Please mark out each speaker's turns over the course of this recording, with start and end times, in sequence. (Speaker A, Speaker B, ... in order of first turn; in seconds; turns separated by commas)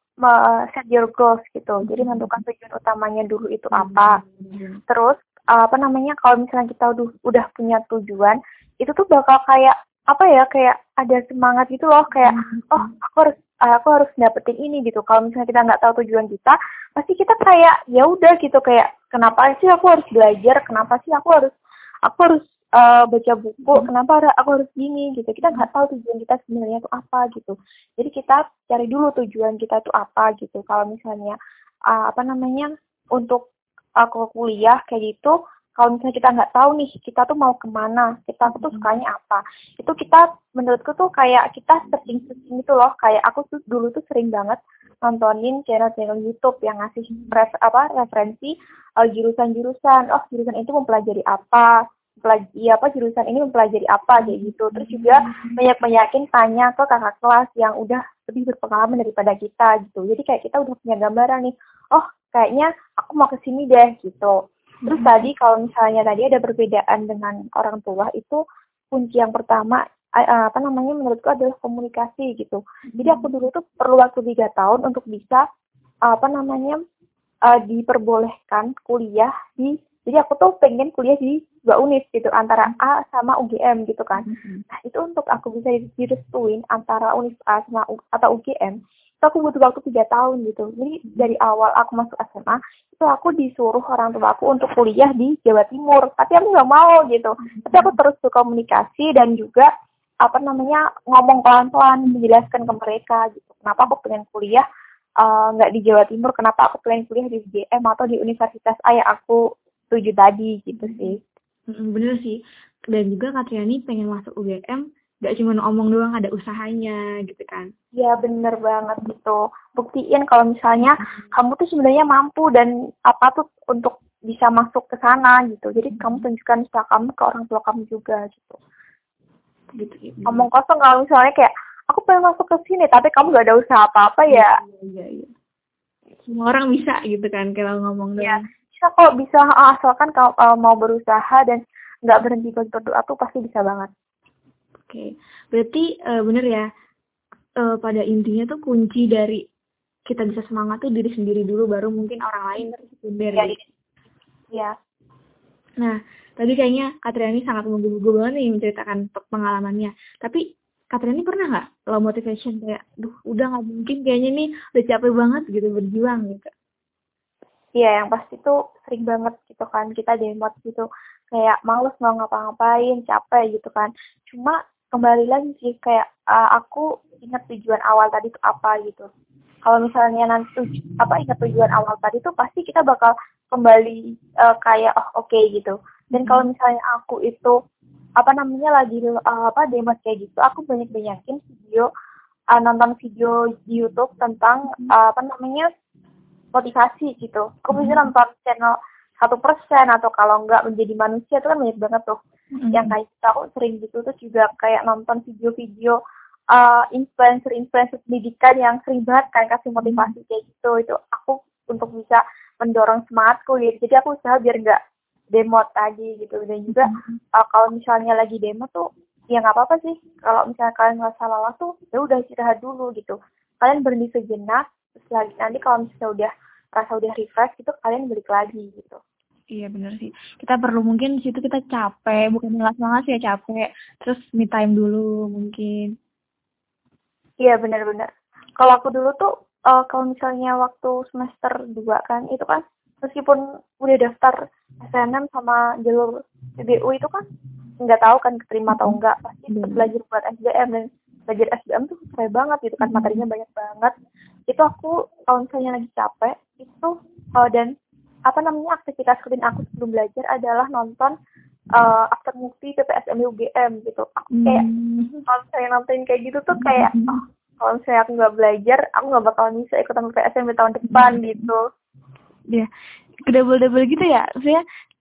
Speaker A: 0.2-4.2, Speaker B: 1.9-2.4, Speaker B: 3.7-4.8, Speaker A: 4.9-21.5, Speaker B: 12.2-12.9, Speaker A: 22.1-31.4, Speaker A: 31.9-33.4, Speaker A: 34.0-64.3, Speaker B: 38.5-38.9, Speaker B: 47.1-47.4, Speaker B: 54.2-55.6, Speaker B: 64.9-65.3, Speaker A: 64.9-68.4, Speaker A: 68.9-75.4, Speaker B: 72.9-73.3, Speaker A: 76.1-76.8, Speaker A: 77.5-99.7, Speaker B: 84.2-84.6, Speaker B: 97.5-97.9, Speaker A: 100.2-104.6, Speaker A: 105.2-109.4, Speaker A: 109.9-111.2, Speaker B: 110.8-111.2, Speaker B: 111.7-112.4, Speaker B: 112.9-117.7, Speaker A: 118.0-128.6, Speaker B: 125.8-126.2, Speaker B: 129.8-130.4, Speaker A: 130.3-134.6, Speaker B: 134.3-135.3, Speaker B: 136.3-138.4, Speaker A: 138.2-143.9, Speaker B: 144.9-146.7, Speaker B: 147.6-149.4, Speaker B: 150.1-153.6, Speaker A: 153.3-153.6, Speaker B: 155.8-160.4, Speaker B: 160.9-166.5, Speaker A: 167.8-179.1, Speaker A: 179.7-187.6, Speaker B: 186.1-186.5, Speaker A: 188.2-191.9, Speaker A: 192.5-195.7, Speaker A: 196.5-202.2, Speaker B: 197.7-198.0, Speaker B: 202.6-202.9, Speaker A: 202.7-206.0, Speaker A: 206.5-214.8, Speaker B: 209.8-210.1, Speaker A: 215.3-229.0, Speaker B: 216.7-217.1, Speaker B: 229.5-235.9, Speaker A: 237.4-238.1, Speaker A: 238.6-247.2, Speaker A: 247.8-253.9, Speaker B: 248.7-249.0, Speaker B: 249.5-249.9, Speaker B: 252.8-253.2, Speaker A: 254.5-257.7, Speaker A: 258.3-261.1, Speaker A: 261.8-264.6, Speaker B: 264.3-265.2, Speaker A: 265.3-271.6, Speaker B: 266.5-267.2, Speaker B: 270.9-271.5, Speaker B: 273.3-274.6